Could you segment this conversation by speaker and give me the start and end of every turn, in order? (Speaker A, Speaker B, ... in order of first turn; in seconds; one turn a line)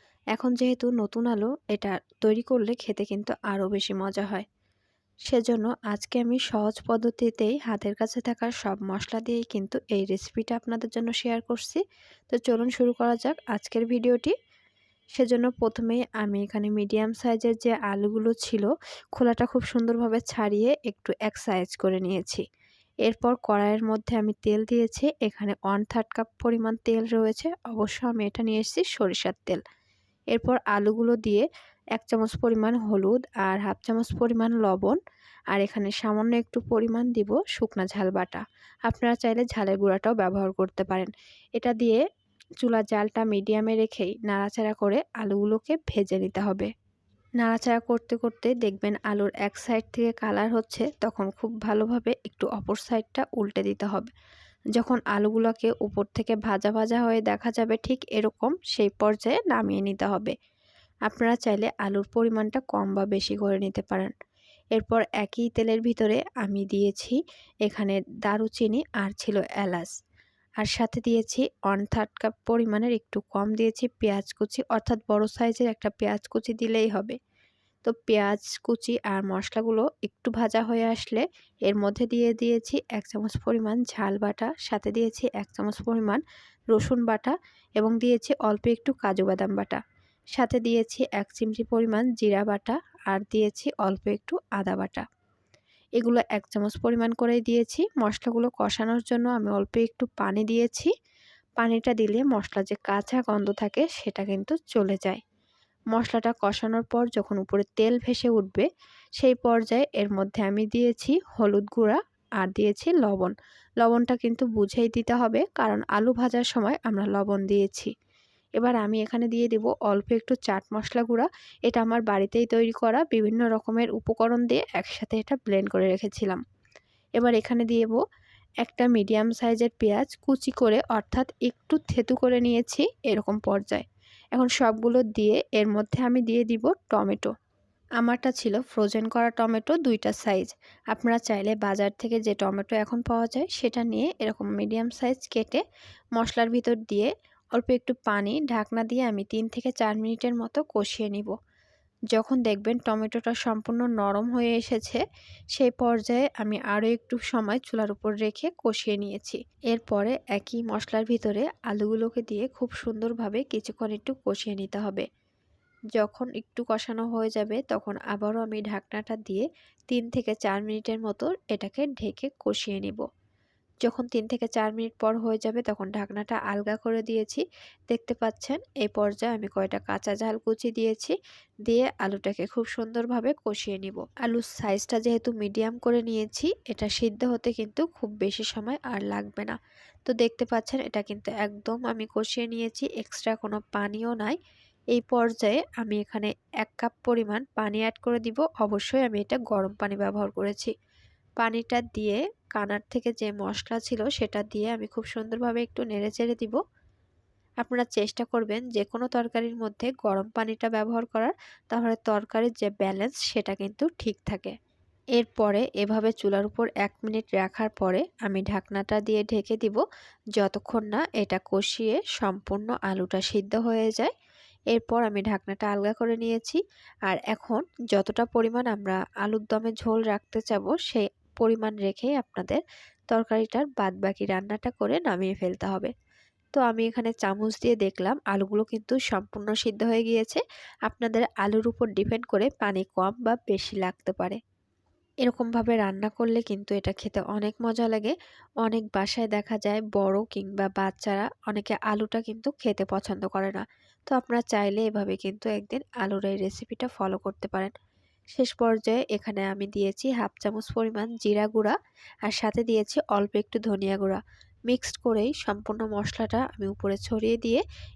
Speaker A: 0.4-4.5
Speaker A: 5.3-14.3
Speaker A: 15.2-22.4
Speaker A: 23.1-29.6
Speaker A: 30.3-31.4
Speaker A: 32.0-35.0
Speaker A: 35.5-42.0
Speaker A: 42.6-46.7
Speaker A: 47.4-54.1
Speaker A: 54.8-60.3
Speaker A: 61.1-64.1
Speaker A: 64.8-69.9
Speaker A: 70.6-77.2
Speaker A: 77.8-86.2
Speaker A: 86.7-89.8
Speaker A: 90.4-95.1
Speaker A: 96.0-100.9
Speaker A: 101.6-105.2
Speaker A: 106.0-108.7
Speaker A: 109.2-117.9
Speaker A: 118.6-126.4
Speaker A: 127.2-128.0
Speaker A: 128.6-137.3
Speaker A: 138.0-145.6
Speaker A: 146.2-151.3
Speaker A: 152.1-155.0
Speaker A: 155.6-165.1
Speaker A: 166.0-173.0
Speaker A: 173.8-181.2
Speaker A: 181.7-194.4
Speaker A: 194.9-200.7
Speaker A: 201.4-206.6
Speaker A: 207.6-214.5
Speaker A: 215.2-219.8
Speaker A: 220.4-224.1
Speaker A: 224.7-235.9
Speaker A: 236.6-244.4
Speaker A: 245.2-257.7
Speaker A: 258.4-261.8
Speaker A: 262.3-267.6